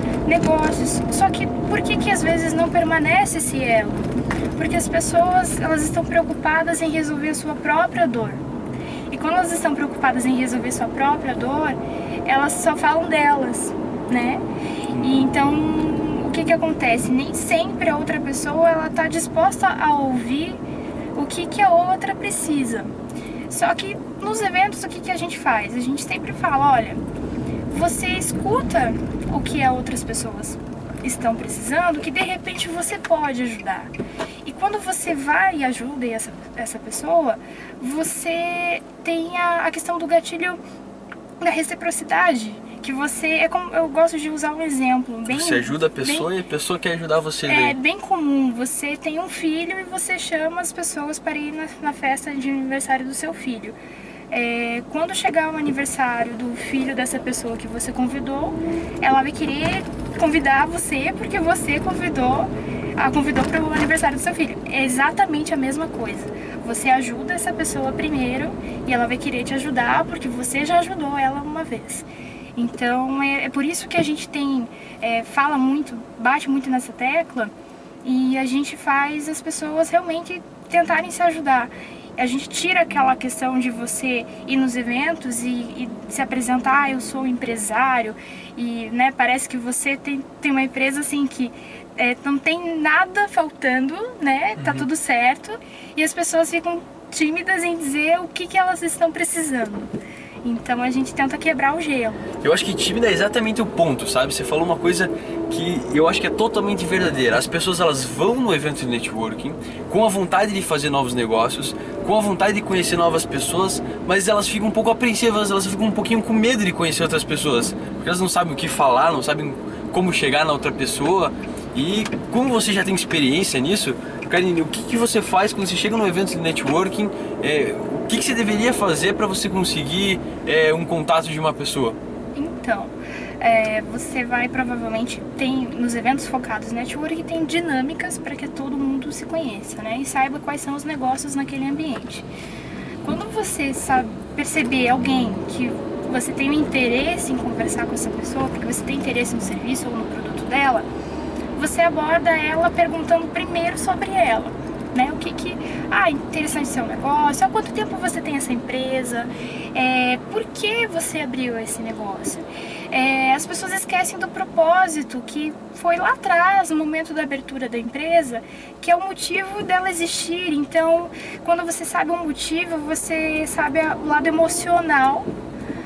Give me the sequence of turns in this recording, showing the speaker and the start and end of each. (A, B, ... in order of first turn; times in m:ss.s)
0:00.2-0:08.4 A
0:09.1-0:14.4 A
0:15.0-0:20.6 A
0:21.2-0:22.9 A
0:23.5-0:27.0 A
0:27.7-0:33.9 A
0:34.4-0:40.6 A
0:41.4-0:46.3 A
0:45.3-0:47.8 B
0:47.5-0:53.8 A
0:54.3-1:17.5 A
1:18.0-1:39.9 A
1:34.6-1:34.9 B
1:40.4-1:42.3 A
1:42.4-2:12.0 B
2:12.4-2:22.3 A
2:23.0-2:30.9 A
2:31.6-2:55.3 A